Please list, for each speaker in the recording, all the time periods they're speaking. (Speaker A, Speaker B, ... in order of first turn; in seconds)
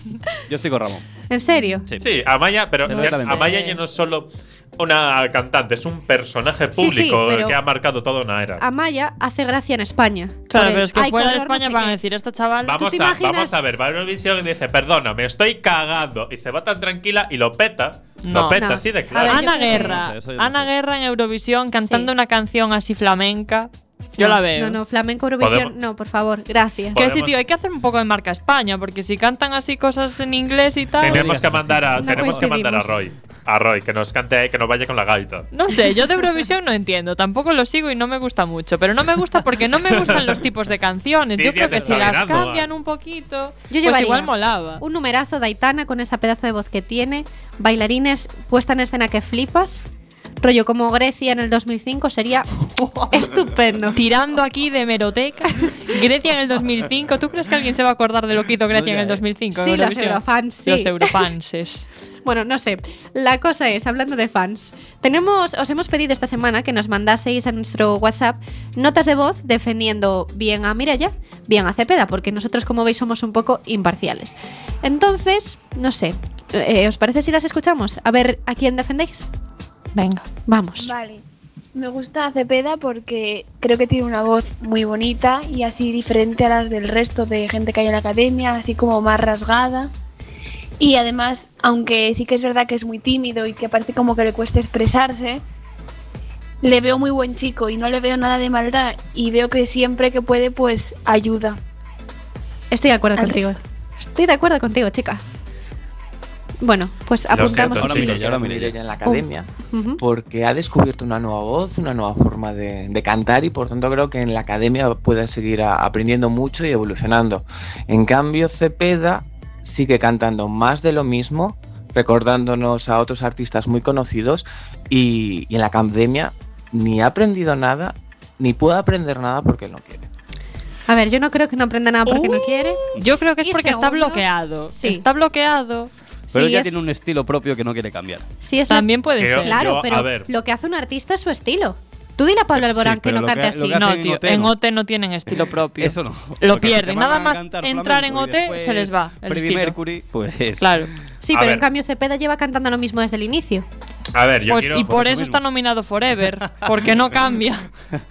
Speaker A: 0.5-1.0, 2.8-3.5, 19.5-20.7, 31.0-32.4, 58.7-59.2, 107.5-108.8, 136.3-138.2, 142.6-144.5, 145.3-150.8, 154.7-155.4, 156.4-156.8
Speaker B: 1.3-1.9, 6.7-7.6, 8.6-12.0, 12.8-13.6, 18.6-20.0, 24.2-27.0, 32.0-33.0, 43.7-49.8, 50.4-54.0, 59.5-61.2, 62.2-79.3, 80.5-80.9, 102.7-105.2, 106.6-108.2, 109.0-110.0, 130.9-132.8, 133.4-135.0, 136.3-136.7, 138.4-138.9, 139.4-143.8, 151.2-153.6
Speaker C: 2.0-8.6, 12.6-19.4, 25.4-25.7, 26.9-27.3, 31.0-35.5, 39.9-40.4, 41.4-42.7, 107.3-108.2, 139.2-140.3, 151.3-151.7, 154.1-154.9
Speaker D: 2.9-3.8, 10.5-12.9, 18.2-18.7, 19.2-24.8, 26.9-31.3, 35.5-44.8, 53.9-61.9, 79.9-80.2, 132.1-135.9, 138.7-139.6, 143.7-149.8, 150.6-150.9, 154.5-157.7
Speaker E: 80.8-81.2, 81.7-89.9, 90.8-95.4, 96.6-101.6, 103.2-103.5
Speaker F: 107.8-130.1